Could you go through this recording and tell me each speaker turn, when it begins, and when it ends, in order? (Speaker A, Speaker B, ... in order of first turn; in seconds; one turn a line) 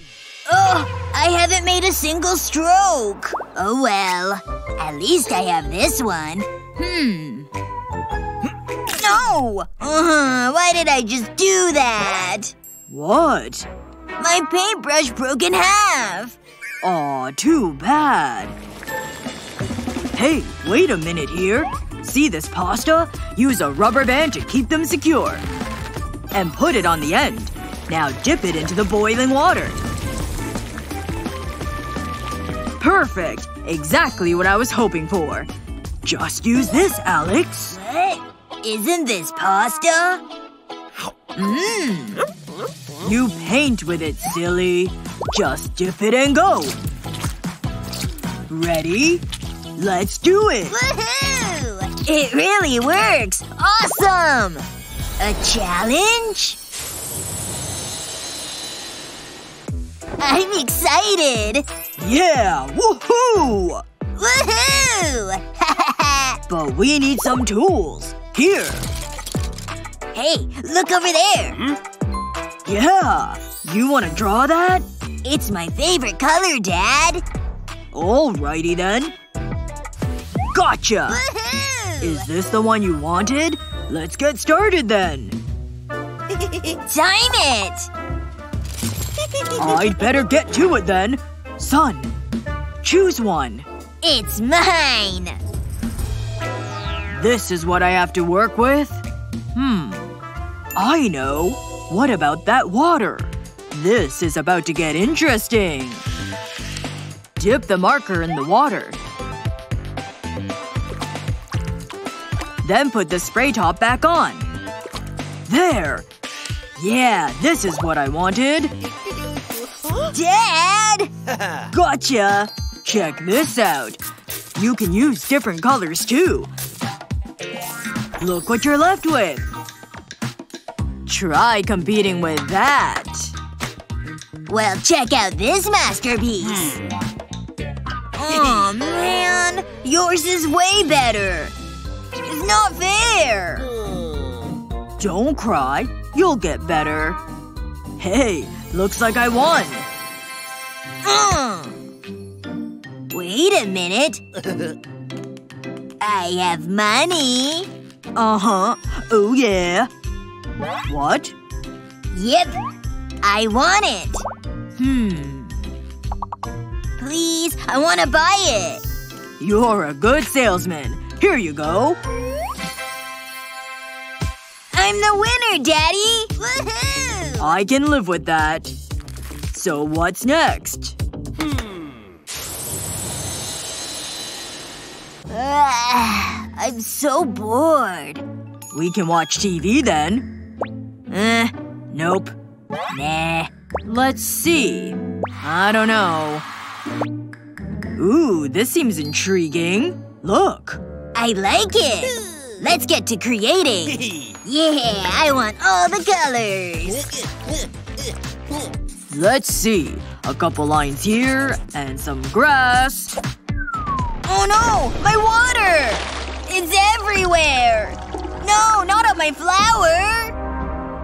Speaker A: 0.5-7.5
Speaker A: 8.9-12.5
Speaker B: 12.9-13.7
Speaker A: 14.2-16.4
Speaker B: 16.8-18.5
Speaker B: 20.1-25.4
Speaker B: 26.3-29.8
Speaker B: 32.8-35.5
Speaker B: 36.0-37.8
Speaker A: 37.7-40.2
Speaker A: 41.4-42.2
Speaker B: 43.0-46.8
Speaker B: 48.5-49.2
Speaker B: 49.8-50.8
Speaker A: 50.7-54.6
Speaker A: 55.2-56.6
Speaker A: 60.2-61.6
Speaker B: 62.0-63.8
Speaker A: 64.2-66.4
Speaker B: 66.5-68.8
Speaker A: 70.1-71.6
Speaker B: 72.7-74.8
Speaker A: 75.2-77.2
Speaker B: 77.9-79.1
Speaker B: 80.5-81.2
Speaker A: 81.1-82.2
Speaker B: 82.0-85.4
Speaker A: 86.7-87.9
Speaker B: 89.5-92.1
Speaker B: 92.8-93.7
Speaker A: 94.0-95.4
Speaker B: 97.1-99.0
Speaker B: 99.5-100.0
Speaker B: 100.8-106.0
Speaker B: 107.4-109.0
Speaker B: 112.6-114.6
Speaker B: 115.5-116.0
Speaker B: 116.8-118.7
Speaker A: 120.1-121.1
Speaker B: 121.7-124.0
Speaker B: 124.5-126.5
Speaker B: 128.2-129.4
Speaker B: 131.1-133.3
Speaker A: 134.5-136.8
Speaker A: 138.1-141.5
Speaker A: 142.2-143.7
Speaker B: 145.0-147.2
Speaker B: 148.0-149.8
Speaker A: 151.0-151.8
Speaker A: 153.1-154.2
Speaker A: 156.0-157.7
Speaker B: 158.2-159.9
Speaker B: 160.8-161.3
Speaker A: 162.1-162.6
Speaker A: 163.2-164.2
Speaker A: 164.8-165.5
Speaker A: 167.0-168.8
Speaker B: 169.4-172.0
Speaker A: 174.7-177.6
Speaker B: 177.4-178.7
Speaker B: 179.5-180.9
Speaker A: 185.3-188.2
Speaker B: 188.7-190.3
Speaker A: 191.1-191.5
Speaker B: 191.9-192.3
Speaker A: 192.9-193.5
Speaker B: 193.8-196.4
Speaker B: 198.0-200.8
Speaker A: 201.1-207.2
Speaker B: 209.1-213.1
Speaker A: 214.2-220.3